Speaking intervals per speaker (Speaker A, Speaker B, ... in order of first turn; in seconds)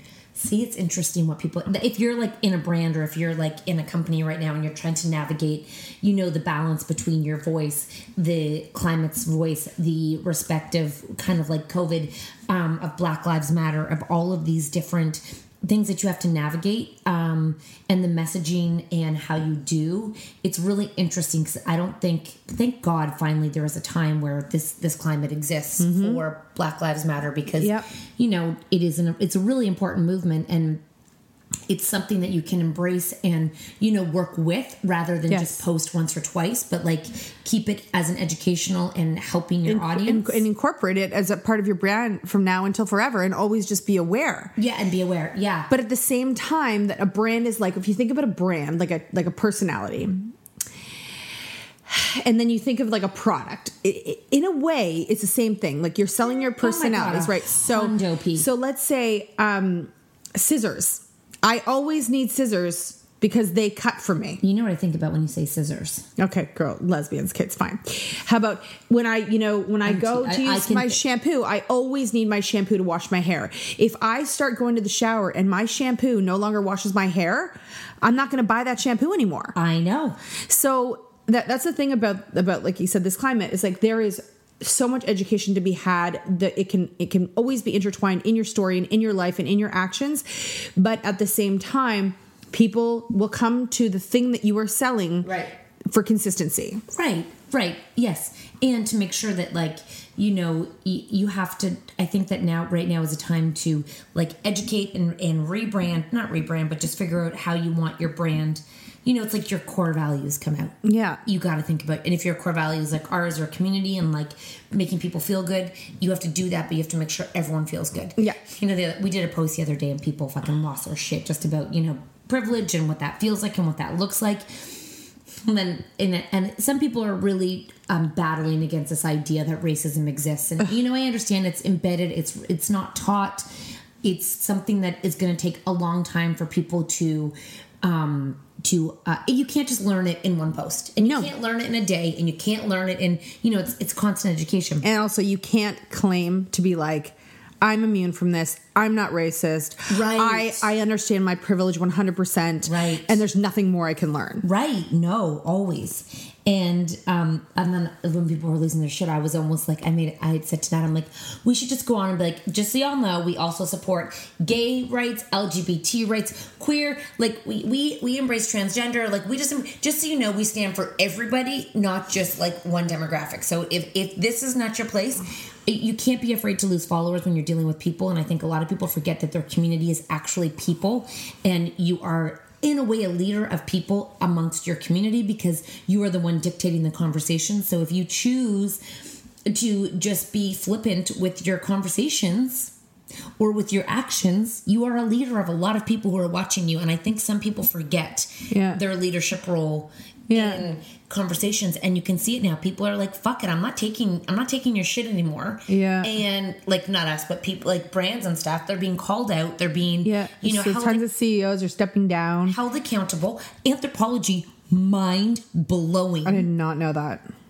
Speaker A: 0.3-30.8, 31.7-40.4, 44.6-45.7, 56.3-58.5, 64.4-66.1, 69.9-71.0, 79.5-80.2, 95.2-95.5, 96.9-124.8, 125.4-133.5, 134.0-144.9, 149.9-150.7, 152.7-153.2, 154.4-188.8, 189.5-192.7, 193.4-211.0, 212.5-216.5
Speaker B: 25.8-26.2, 27.6-27.9, 35.3-35.6, 39.7-44.5, 45.7-50.3, 51.9-64.4, 66.2-79.5, 80.5-95.3, 95.9-96.8, 110.8-111.2, 141.0-141.3, 144.8-154.4, 198.5-198.8, 200.3-200.7, 205.7-206.2, 210.0-212.6, 216.2-217.3